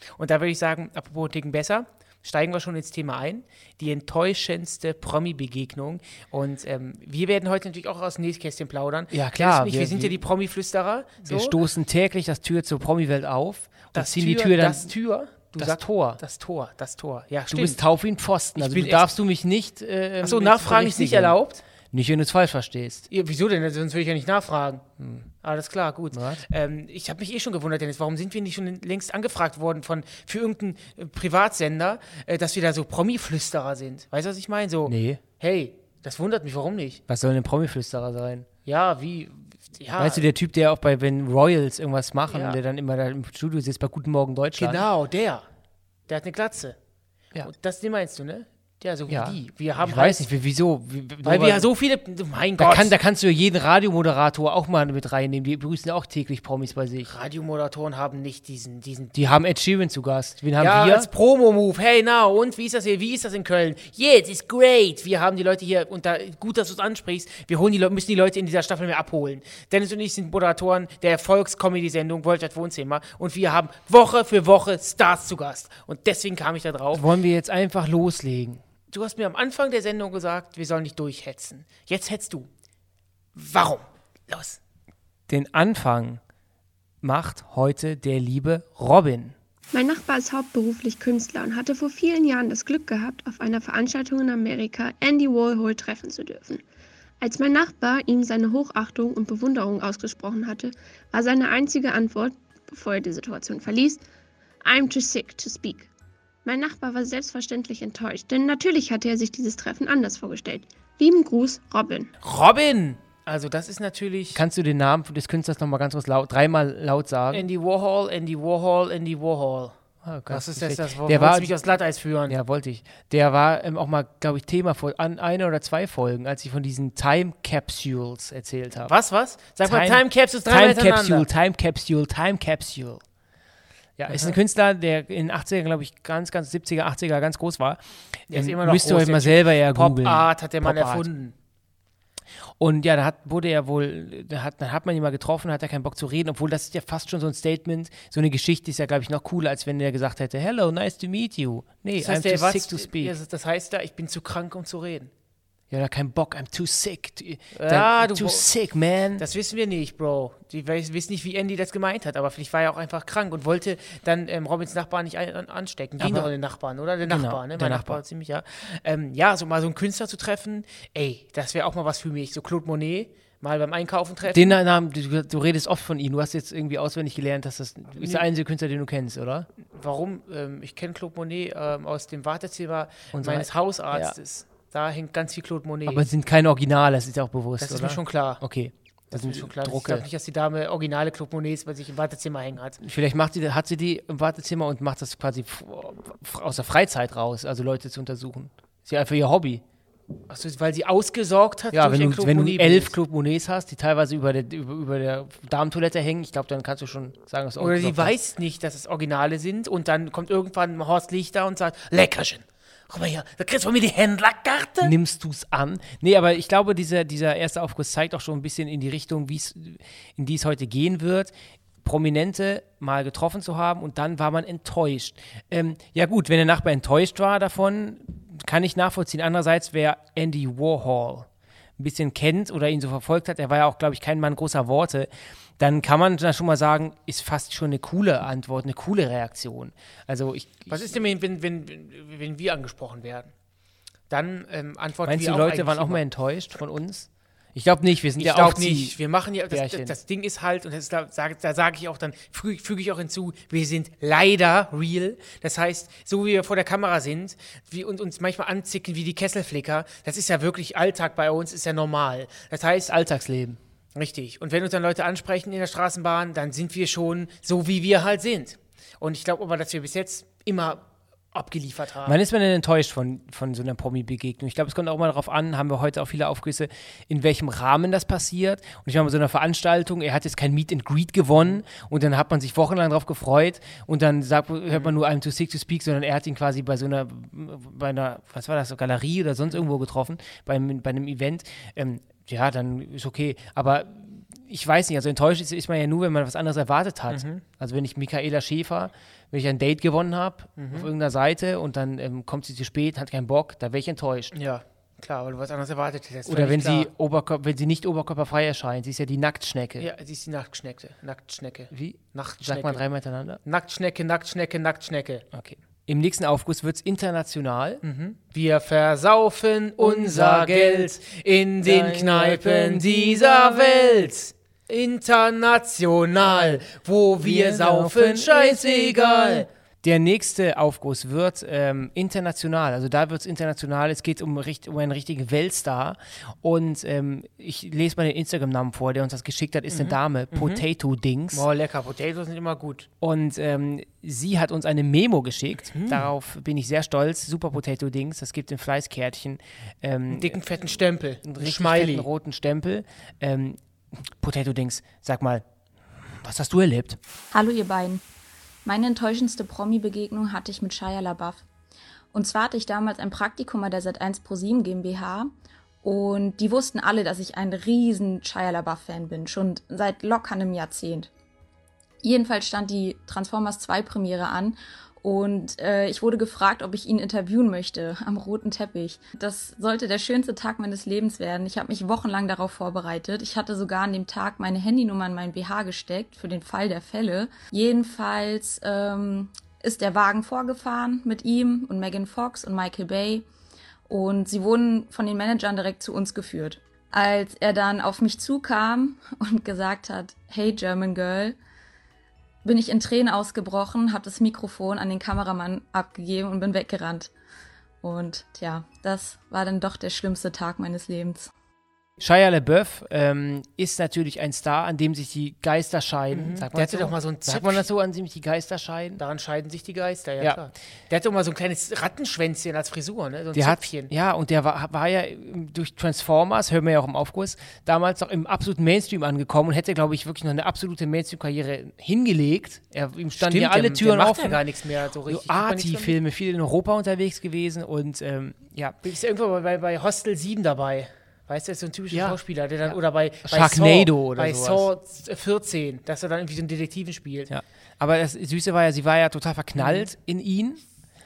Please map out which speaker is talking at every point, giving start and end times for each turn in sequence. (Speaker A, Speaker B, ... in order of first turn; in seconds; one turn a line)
Speaker A: 0.2-11.6
Speaker B: 9.1-10.2
Speaker B: 11.3-14.9
Speaker A: 13.9-17.8
Speaker B: 15.6-16.2
Speaker B: 17.5-21.4
Speaker A: 18.6-19.1
Speaker A: 20.2-21.6
Speaker B: 21.9-23.0
Speaker A: 23.1-24.8
Speaker B: 25.0-25.3
Speaker A: 25.4-37.0
Speaker B: 26.1-26.4
Speaker B: 34.9-35.2
Speaker B: 37.1-38.5
Speaker A: 38.6-40.2
Speaker B: 40.0-44.8
Speaker A: 42.3-42.6
Speaker A: 44.6-45.4
Speaker A: 46.1-46.8
Speaker A: 47.4-50.3
Speaker B: 49.1-51.7
Speaker A: 51.2-52.9
Speaker B: 52.6-57.1
Speaker A: 57.1-59.1
Speaker B: 59.1-61.1
Speaker A: 60.6-77.0
Speaker B: 76.9-78.6
Speaker A: 78.9-82.5
Speaker A: 83.3-84.6
Speaker B: 85.3-86.2
Speaker B: 87.0-89.3
Speaker C: 89.7-96.6
Speaker C: 97.2-104.0
Speaker C: 104.6-105.9
Speaker C: 106.4-112.1
Speaker A: 112.2-114.4
Speaker B: 114.3-117.4
Speaker A: 117.3-119.8
Speaker B: 120.0-121.5
Speaker A: 120.3-122.3
Speaker B: 122.3-128.9
Speaker A: 128.8-131.3
Speaker B: 129.6-133.0
Speaker B: 134.0-141.1
Speaker A: 134.0-134.4
Speaker A: 138.3-141.3
Speaker B: 142.6-153.1
Speaker A: 152.0-155.1
Speaker B: 155.7-159.2
Speaker A: 157.5-158.5
Speaker A: 159.2-174.6
Speaker B: 166.0-166.3
Speaker B: 167.0-168.0
Speaker B: 174.2-179.5
Speaker A: 178.0-178.2
Speaker A: 179.7-186.0
Speaker B: 183.1-184.2
Speaker B: 185.8-190.1
Speaker A: 187.6-188.4
Speaker A: 189.1-192.8
Speaker B: 192.8-199.6
Speaker A: 200.3-202.9
Speaker B: 201.7-208.2
Speaker A: 207.6-214.9
Speaker B: 214.8-221.3
Speaker B: 221.8-231.3
Speaker B: 231.8-241.0
Speaker A: 240.7-243.3
Speaker A: 244.1-246.0
Speaker B: 245.0-248.9
Speaker A: 248.2-262.9
Speaker B: 249.5-249.9
Speaker B: 262.9-263.6
Speaker A: 263.9-272.2
Speaker B: 272.0-304.3
Speaker A: 297.1-297.4
Speaker A: 300.6-300.9
Speaker A: 304.3-306.9
Speaker B: 306.3-309.9
Speaker A: 309.8-312.8
Speaker B: 311.7-313.4
Speaker A: 313.4-315.2
Speaker B: 315.3-317.8
Speaker A: 317.8-329.5
Speaker B: 319.8-320.9
Speaker B: 321.6-324.1
Speaker B: 327.2-341.5
Speaker A: 339.7-340.6
Speaker A: 341.3-342.9
Speaker B: 343.0-350.4
Speaker A: 345.7-346.1
Speaker A: 350.1-352.1
Speaker B: 351.2-355.4
Speaker B: 356.2-357.0
Speaker D: 357.3-358.0
Speaker D: 358.6-361.4
Speaker D: 362.1-365.3
Speaker D: 365.8-371.1
Speaker D: 372.0-393.2
Speaker D: 393.9-401.4
Speaker D: 402.4-407.1
Speaker D: 407.8-411.3
Speaker B: 412.0-419.0
Speaker A: 416.1-417.7
Speaker A: 419.0-423.9
Speaker B: 423.3-434.4
Speaker A: 433.2-436.0
Speaker B: 435.1-438.8
Speaker A: 438.8-447.3
Speaker B: 441.9-444.7
Speaker B: 447.3-450.6
Speaker A: 449.6-449.9